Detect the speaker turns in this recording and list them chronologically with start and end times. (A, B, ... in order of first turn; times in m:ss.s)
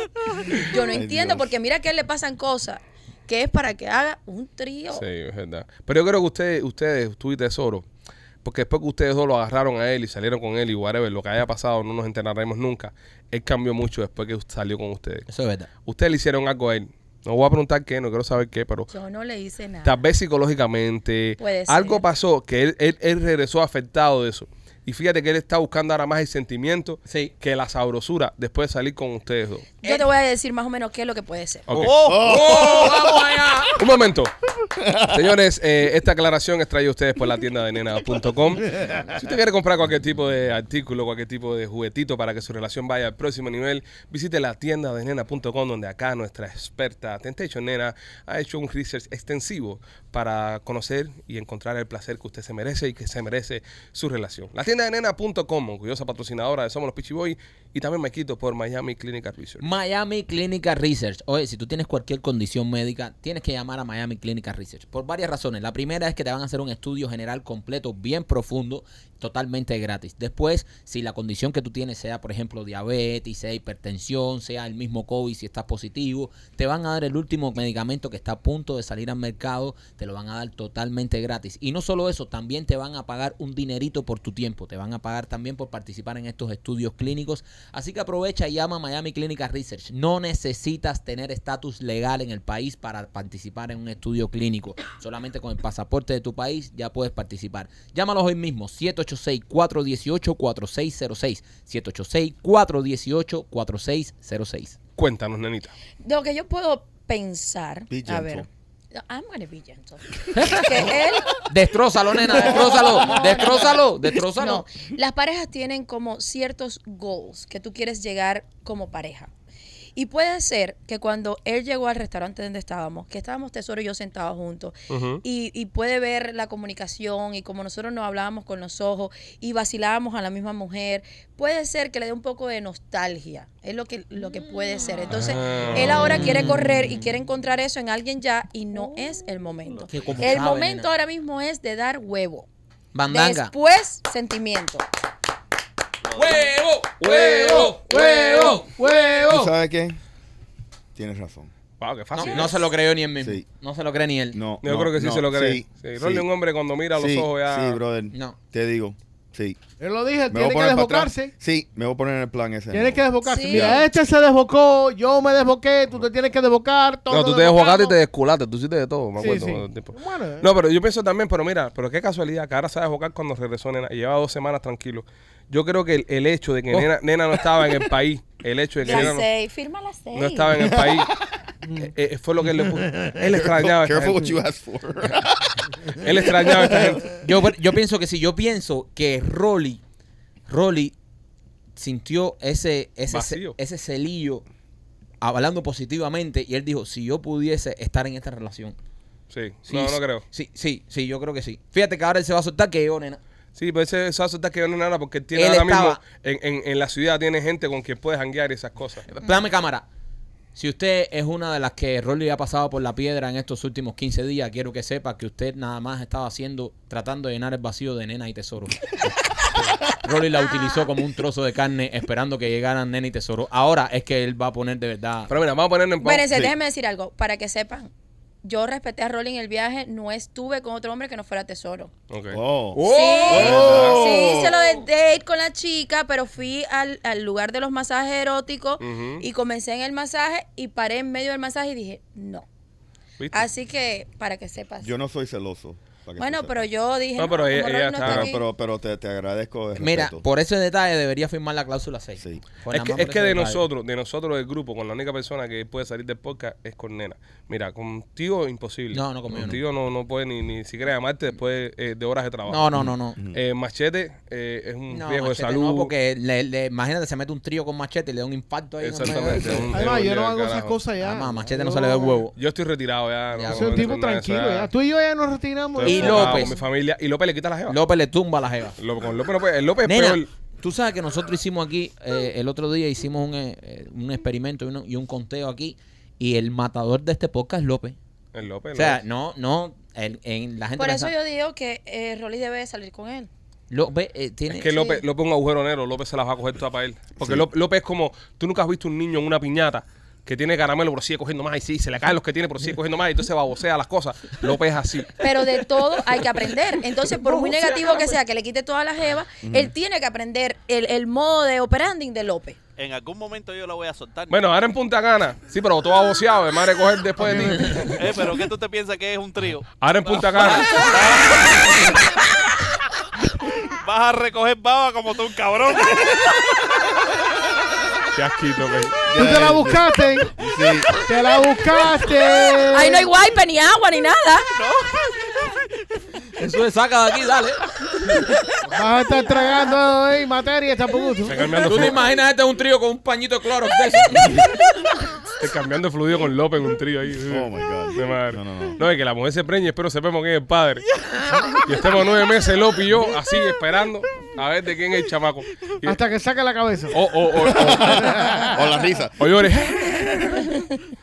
0:00.6-0:05.0 A
0:00.8-0:01.5 B
0:04.9-0:07.8 C
0:08.4-0:15.3 C
0:15.3-0:15.7 D
0:15.9-0:18.9 C
0:18.9-0:20.0 A
0:19.8-0:29.7 C
0:21.4-0:22.0 A
0:27.1-0:27.3 D
0:29.8-0:31.7 A
0:31.7-0:31.9 C
0:31.8-0:33.8 D
0:31.8-0:32.3 E
0:32.0-0:33.2 B
0:33.8-0:34.3 C
0:34.7-0:35.3 B
0:35.1-0:59.7 C
0:59.6-1:44.8 D
1:45.0-1:45.7 C
1:46.0-1:51.4 A
1:47.9-1:48.5 B
1:50.4-1:54.6 D
1:52.2-1:59.3 A
2:00.0-2:22.5 A
2:04.9-2:05.2 C
2:15.1-2:16.2 C
2:15.7-2:17.1 D
2:19.9-2:20.9 D
2:22.9-2:23.5 D
2:23.1-2:24.8 A
2:26.0-2:26.5 E
2:26.1-2:29.2 D
2:27.0-2:27.8 C
2:27.5-2:29.5 F
2:29.2-2:30.0 B
2:31.0-2:31.5 B
2:31.8-2:32.6 C
2:32.1-2:34.4 D
2:34.3-2:36.3 B
2:34.6-2:37.8 C
2:36.9-2:39.6 B
2:39.8-2:41.3 F
2:40.3-2:43.8 B
2:42.7-2:47.7 F
2:43.2-2:43.8 A
2:47.1-2:59.3 C
2:47.4-2:48.0 A
2:49.2-2:50.5 F
2:58.8-3:00.8 A
3:00.1-3:01.1 C
3:01.6-3:01.9 F
3:01.8-3:04.4 C
3:03.2-3:06.8 B
3:06.0-3:07.1 C
3:07.1-3:09.8 D
3:10.5-3:10.9 D
3:11.8-3:14.4 D
3:13.1-3:13.6 C
3:15.2-3:18.8 D
3:19.3-3:20.2 C
3:19.7-3:23.2 D
3:23.6-3:29.0 C
3:25.3-3:26.0 D
3:29.1-3:29.8 D
3:30.6-3:39.1 D
3:39.8-3:45.3 D
3:45.3-3:46.3 C
3:46.0-3:47.9 A
3:48.4-3:51.9 A
3:52.1-3:52.4 C
3:52.3-3:54.6 B
3:52.8-3:54.4 D
3:52.8-4:02.5 A
3:53.3-3:54.2 C
3:58.8-3:59.2 C
4:03.2-4:03.5 C
4:03.3-4:04.9 A
4:04.8-4:06.7 B
4:06.2-4:08.4 A
4:07.2-4:08.3 C
4:08.0-4:10.2 B
4:09.8-4:13.6 D
4:12.7-4:25.9 C
4:18.9-4:19.6 D
4:22.5-4:23.2 D
4:22.7-4:23.4 B
4:24.9-4:29.7 D
4:28.8-4:30.8 C
4:29.6-4:32.3 F
4:31.0-4:32.3 D
4:32.4-4:34.7 C
4:33.3-4:33.9 D
4:33.5-4:36.6 F
4:35.8-4:37.8 C
4:35.8-4:36.6 D
4:37.7-4:38.8 D
4:38.8-4:40.3 C
4:39.8-4:48.0 D
4:48.4-4:49.0 C
4:48.7-4:51.1 D
4:50.8-4:53.3 A
4:53.7-4:54.8 D
4:54.5-5:05.1 C
4:54.7-4:55.0 A
4:57.2-4:57.5 B
5:05.2-5:12.6 A
5:07.1-5:08.2 D
5:09.4-5:09.7 B
5:12.8-5:14.5 E
5:14.3-5:18.0 C
5:17.8-5:22.0 E
5:19.8-5:21.0 C
5:23.8-5:26.9 E
5:28.1-5:29.0 C
5:29.1-5:30.9 B
5:29.1-5:30.4 F
5:30.9-5:33.1 F
5:32.7-5:34.5 A
5:34.5-5:35.6 E
5:36.4-5:38.3 D
5:38.7-5:41.8 F
5:41.2-5:42.0 C
5:41.6-5:44.6 D
5:45.4-5:50.9 C
5:47.3-5:48.8 B
5:51.6-5:56.0 C
5:55.8-5:57.0 F
5:56.9-5:58.2 C
5:57.4-6:00.1 B
5:58.0-5:58.6 F
5:59.2-6:00.6 C